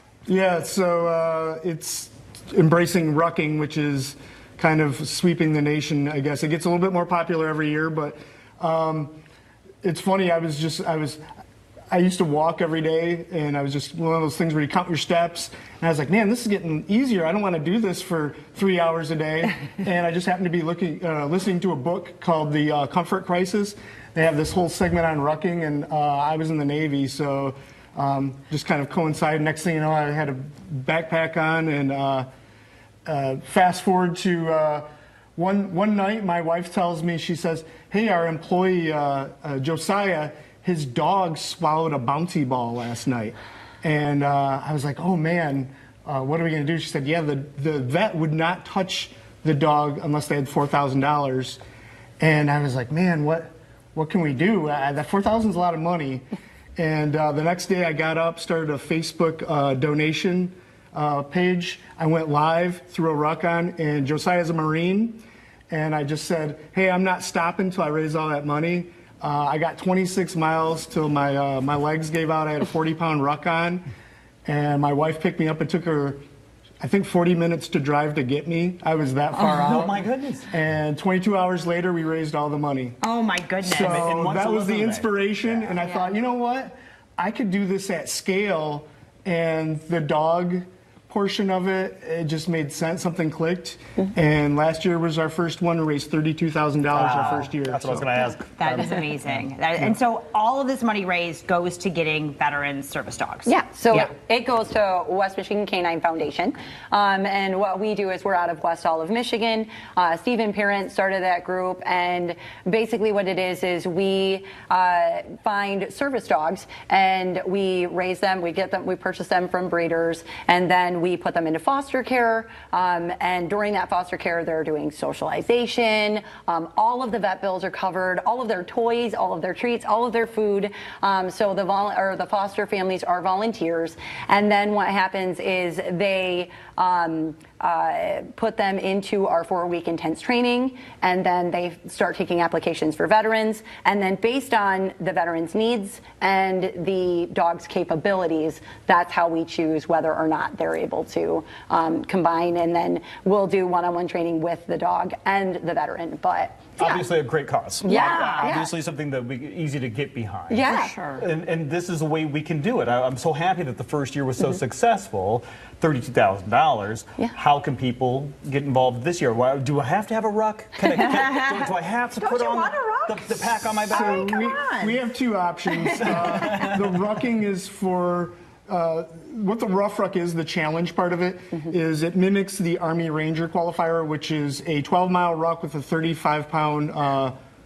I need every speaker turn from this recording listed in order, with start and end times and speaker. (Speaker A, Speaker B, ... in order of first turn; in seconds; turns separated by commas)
Speaker A: 0.3-9.1, Speaker A: 9.8-11.2, Speaker A: 11.9-32.3, Speaker A: 33.1-51.6, Speaker A: 52.2-56.2, Speaker A: 56.8-73.8, Speaker A: 74.5-76.2, Speaker A: 76.8-80.0, Speaker B: 79.6-80.5, Speaker A: 80.5-83.0, Speaker C: 83.0-84.1, Speaker A: 83.6-98.1, Speaker B: 83.7-85.7, Speaker B: 96.9-99.9, Speaker C: 98.5-104.1, Speaker D: 103.5-157.1, Speaker B: 156.8-174.3, Speaker D: 157.8-158.7, Speaker C: 157.9-158.5, Speaker D: 160.5-160.9, Speaker C: 160.7-161.2, Speaker C: 171.1-171.6, Speaker C: 172.2-175.0, Speaker A: 173.8-187.3, Speaker B: 176.0-176.8